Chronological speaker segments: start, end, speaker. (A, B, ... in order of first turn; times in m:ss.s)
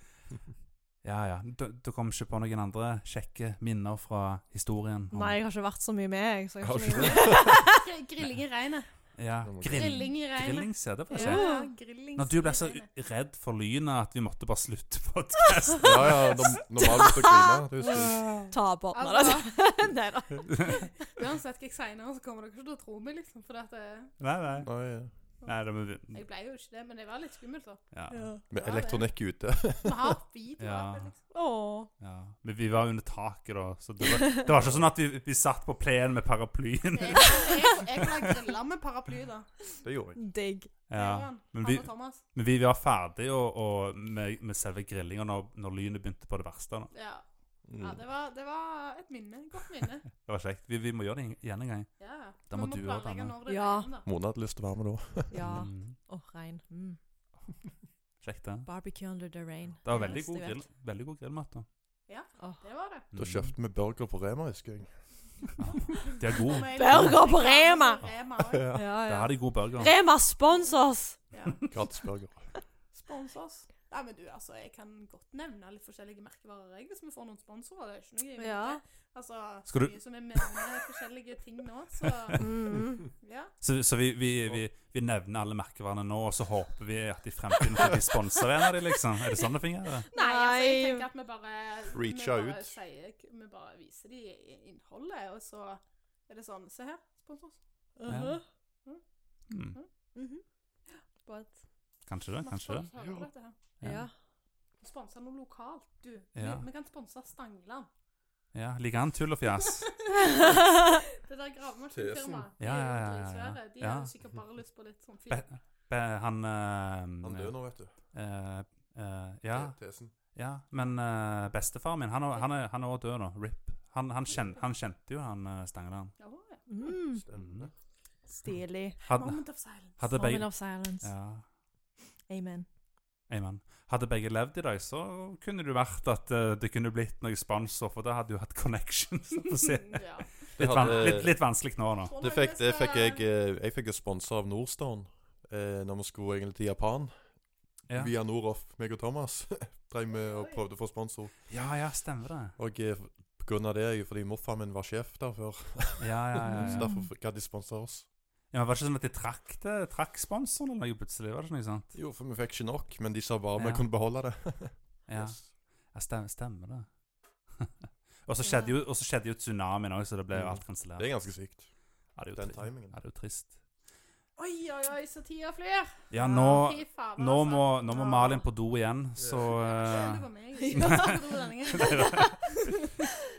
0:01.0-0:05.4 A
0:05.1-0:07.8 B
0:06.6-0:07.6 C
0:07.7-0:08.9 D
0:09.2-0:11.5 A
0:09.4-0:10.0 C
0:09.7-0:12.9 D
0:11.1-0:11.7 B
0:12.2-0:16.6 A
0:15.8-0:18.3 C
0:16.8-0:18.0 B
0:17.9-0:18.5 A
0:18.5-0:20.8 B
0:18.9-0:19.6 D
0:21.0-0:24.1 D
0:24.2-0:24.7 A
0:24.6-0:25.1 C
0:25.4-0:26.2 A
0:26.1-0:27.8 D
0:27.9-0:28.3 A
0:28.1-0:28.4 B
0:28.5-0:30.2 C
0:28.6-0:29.1 D
0:29.8-0:31.2 D
0:30.6-0:31.1 A
0:31.3-0:31.9 B
0:32.0-0:38.1 A
0:34.5-0:34.9 C
0:36.9-0:39.5 D
0:39.8-0:40.2 C
0:40.2-0:40.7 B
0:40.9-0:46.9 A
0:40.9-0:42.2 D
0:46.9-0:47.2 D
0:47.7-0:48.0 C
0:47.8-0:50.1 D
0:50.2-0:52.0 A
0:52.0-0:54.1 D
0:52.5-0:53.4 A
0:53.5-0:53.9 B
0:54.0-0:55.4 C
0:55.3-0:57.0 B
0:55.4-0:56.0 A
0:58.2-0:58.7 A
0:58.7-1:00.6 B
0:59.8-1:01.7 A
1:02.1-1:03.1 D
1:03.1-1:03.5 A
1:03.2-1:04.9 C
1:05.6-1:07.2 A
1:06.0-1:08.8 D
1:06.7-1:08.0 B
1:08.5-1:08.9 C
1:08.7-1:11.2 B
1:09.1-1:09.9 A
1:11.3-1:11.7 D
1:11.7-1:12.5 C
1:12.9-1:22.5 D
1:18.4-1:18.8 B
1:19.7-1:20.0 A
1:22.4-1:23.1 B
1:23.2-1:23.5 D
1:23.6-1:30.1 A
1:30.1-1:31.1 B
1:30.1-1:37.6 D
1:31.9-1:32.7 C
1:38.0-1:38.4 B
1:38.1-1:38.4 A
1:39.5-1:39.8 A
1:40.2-1:40.4 B
1:42.1-1:42.9 A
1:42.4-1:43.6 D
1:43.0-1:43.3 C
1:43.8-1:44.1 A
1:43.8-1:44.1 B
1:44.8-1:47.9 D
1:46.4-1:46.7 A
1:48.5-1:50.0 A
1:50.0-1:55.5 D
1:51.9-1:52.5 C
1:52.6-1:54.1 A
1:55.3-1:57.6 A
1:57.2-1:57.9 C
1:58.1-2:06.1 A
1:59.5-2:00.2 C
2:06.2-2:06.6 D
2:06.7-2:07.2 B
2:07.1-2:07.7 C
2:07.3-2:07.7 A
2:08.4-2:09.0 B
2:09.1-2:11.4 A
2:09.1-2:10.0 D
2:10.1-2:11.1 B
2:12.3-2:12.7 B
2:13.3-2:22.1 A
2:19.8-2:21.2 D
2:20.6-2:27.3 C
2:22.1-2:23.2 D
2:27.9-2:31.4 C
2:30.2-2:30.6 D
2:31.5-2:32.6 A
2:32.6-2:38.1 C
2:36.0-2:36.9 A
2:36.5-2:37.1 B
2:38.5-2:42.0 A
2:41.9-2:45.4 C
2:43.6-2:43.8 A
2:45.1-2:46.9 A
2:48.3-2:51.3 A
2:48.4-2:48.7 B
2:50.3-2:51.7 C
2:52.2-2:53.6 A
2:52.3-2:53.0 C
2:54.4-2:58.5 D
2:56.1-3:01.2 A
2:59.2-2:59.6 C
2:59.4-3:02.4 D
3:00.6-3:02.4 B
3:01.8-3:02.5 A